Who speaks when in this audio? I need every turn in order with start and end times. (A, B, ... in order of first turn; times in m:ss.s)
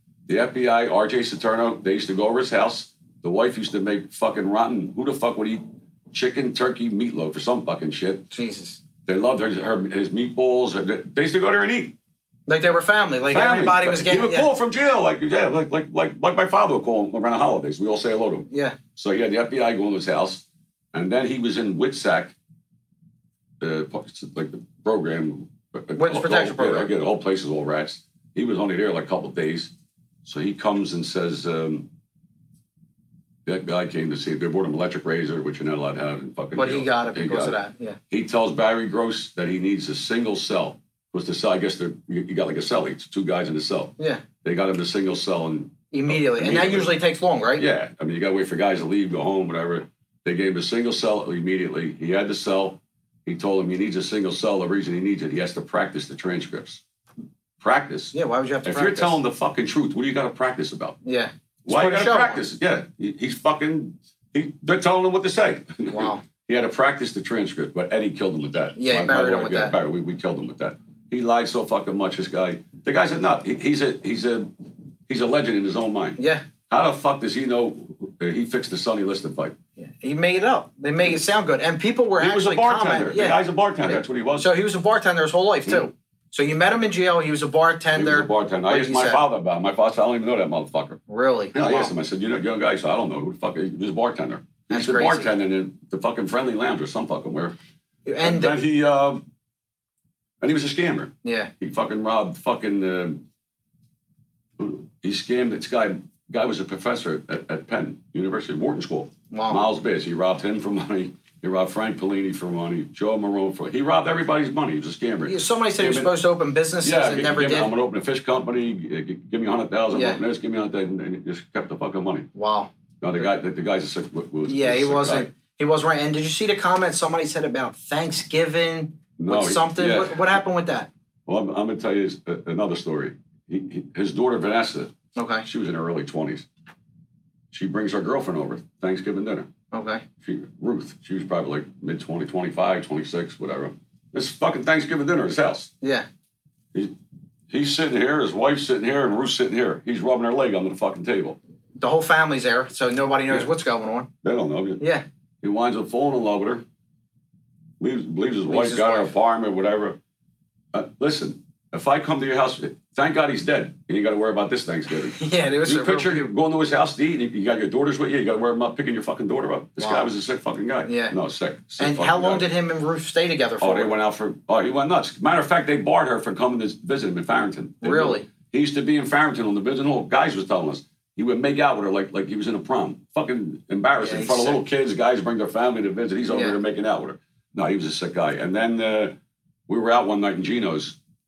0:00.3-0:08.3 A
0:08.3-0:08.8 B
0:09.0-0:11.9 A
0:12.5-0:14.5 B
0:13.3-0:22.3 A
0:18.5-0:18.8 B
0:23.6-0:29.7 A
0:26.0-0:26.9 B
0:30.2-0:31.9 A
0:33.4-0:37.6 A
0:36.6-0:38.0 B
0:38.1-0:47.0 A
0:45.9-0:47.6 B
0:47.6-0:56.8 A
0:57.6-1:01.0 A
0:58.1-0:59.2 B
1:01.0-1:02.4 B
1:01.6-1:14.5 A
1:05.9-1:06.2 B
1:08.8-1:09.7 B
1:15.1-1:19.6 A
1:16.2-1:16.4 B
1:19.8-1:29.2 B
1:22.2-1:24.5 A
1:27.9-1:31.0 A
1:31.1-1:31.9 B
1:31.5-1:37.5 A
1:34.7-1:35.3 B
1:38.0-1:38.5 B
1:38.2-1:39.2 A
1:40.4-1:43.2 A
1:41.2-1:41.5 B
1:44.6-1:56.1 A
1:49.3-1:49.6 B
1:55.2-1:57.7 B
1:56.8-2:02.3 A
1:59.9-2:00.2 B
2:02.3-2:02.7 B
2:03.0-2:05.3 A
2:04.5-2:10.9 B
2:09.2-2:10.4 A
2:11.3-2:14.9 A
2:15.2-2:15.5 B
2:15.4-2:16.4 A
2:17.5-2:19.5 A
2:19.7-2:20.0 B
2:20.2-2:25.7 A
2:27.5-2:31.4 A
2:31.8-2:34.1 B
2:34.2-2:34.8 A
2:34.8-2:35.0 B
2:35.4-2:36.6 A
2:37.8-2:40.0 A
2:38.5-2:39.1 B
2:40.7-2:52.5 A
2:45.1-2:46.3 B
2:49.8-2:50.1 B
2:50.8-2:51.1 B
2:51.8-2:53.9 B
2:53.6-3:09.2 A
2:57.8-2:58.3 B
3:04.0-3:04.6 B
3:06.3-3:06.6 B
3:09.7-3:11.0 A